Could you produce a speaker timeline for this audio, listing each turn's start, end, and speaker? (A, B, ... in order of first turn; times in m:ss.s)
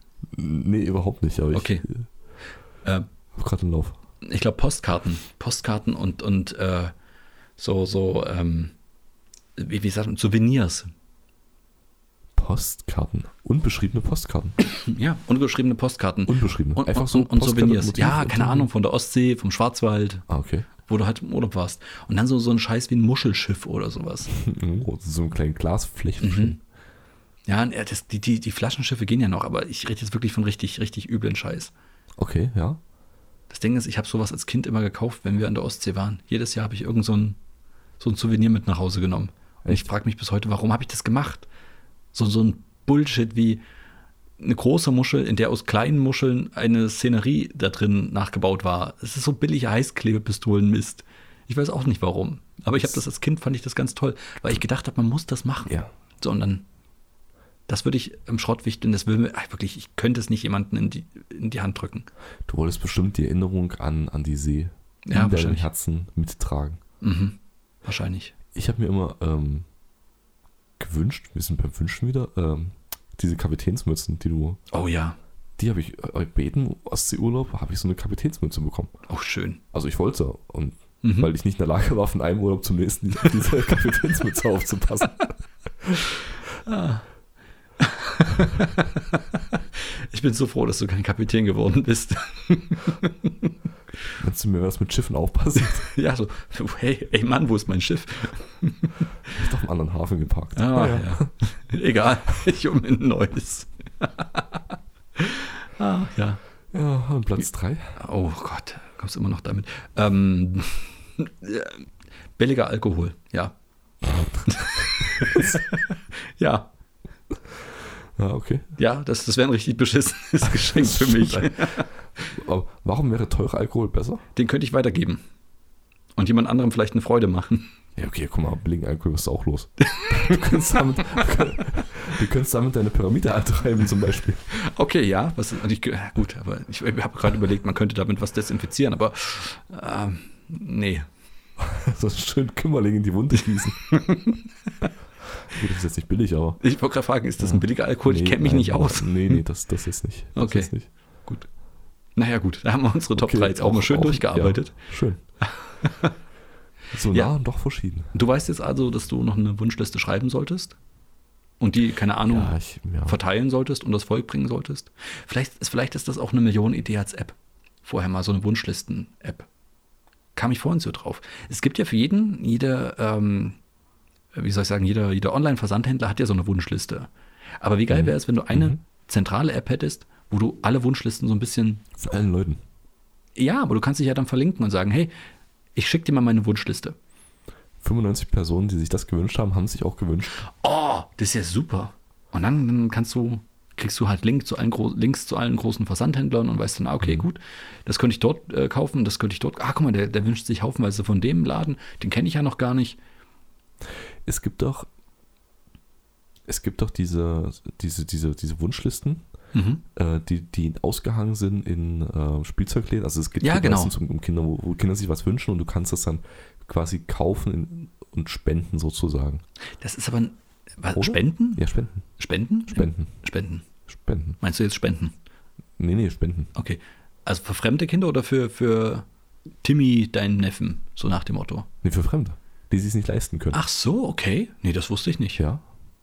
0:00.3-0:02.1 A
0:01.5-0:01.8 B
0:03.4-0:04.0 A
0:04.2-0:06.9 B
0:07.6-0:08.7 B
0:09.6-0:10.9 B
0:12.4-0:14.6 A
0:14.6-0:20.3 B
0:16.3-0:18.7 A
0:20.3-0:20.7 A
0:20.8-0:24.3 B
0:24.3-0:26.6 A
0:26.2-0:26.6 B
0:27.5-0:31.7 B
0:32.2-0:32.8 A
0:33.5-0:37.4 B
0:38.0-0:41.5 B
0:42.1-0:43.6 B
0:44.4-0:56.6 B
0:57.7-1:02.1 B
1:02.5-1:06.8 A
1:05.1-1:05.7 B
1:07.0-1:08.3 B
1:08.5-1:09.6 A
1:10.8-1:14.6 A
1:14.7-1:15.2 B
1:15.6-1:18.9 A
1:19.1-1:19.6 B
1:19.7-1:26.1 A
1:21.0-1:21.3 B
1:26.6-1:27.0 B
1:27.8-1:33.4 B
1:34.2-1:35.9 A
1:35.8-1:39.0 B
1:39.4-1:41.2 A
1:40.6-1:44.6 B
1:45.2-1:46.4 B
1:46.7-1:48.0 A
1:48.0-1:51.8 B
1:52.4-1:53.6 B
1:54.5-1:56.7 B
1:58.2-1:58.7 A
1:58.8-2:01.9 B
2:00.5-2:01.8 A
2:02.3-2:04.2 A
2:04.4-2:05.2 B
2:06.2-2:07.7 B
2:08.0-2:14.5 A
2:10.0-2:10.4 B
2:14.5-2:21.1 B
2:21.6-2:23.8 A
2:23.9-2:24.9 B
2:25.5-2:26.6 A
2:26.6-2:29.4 B
2:27.4-2:30.9 A
2:30.4-2:30.7 B
2:32.2-2:34.8 B
2:33.2-2:35.2 A
2:35.4-2:36.1 B
2:36.9-2:38.1 A
2:38.1-2:40.8 B
2:41.6-2:42.5 B
2:42.2-2:43.2 A
2:43.1-2:49.5 B
2:50.4-2:53.6 B
2:54.3-2:57.1 B
2:57.6-3:01.9 B
2:57.9-2:58.8 A
3:02.0-3:02.6 A
3:03.4-3:05.1 B
3:05.8-3:07.0 B
3:07.8-3:10.4 A
3:10.5-3:23.0 B
3:24.2-3:24.9 A
3:26.5-3:29.2 A
3:29.5-3:29.8 B
3:30.0-3:39.4 A
3:33.4-3:34.0 B
3:39.8-3:41.6 B
3:41.0-3:42.0 A
3:42.2-3:43.7 B
3:42.7-3:43.1 A
3:43.9-3:44.4 A
3:44.4-3:45.1 B
3:45.8-3:46.5 A
3:46.5-3:49.0 B
3:49.6-3:51.7 B
3:51.8-3:53.6 A
3:53.5-3:55.4 B
3:55.4-3:55.6 A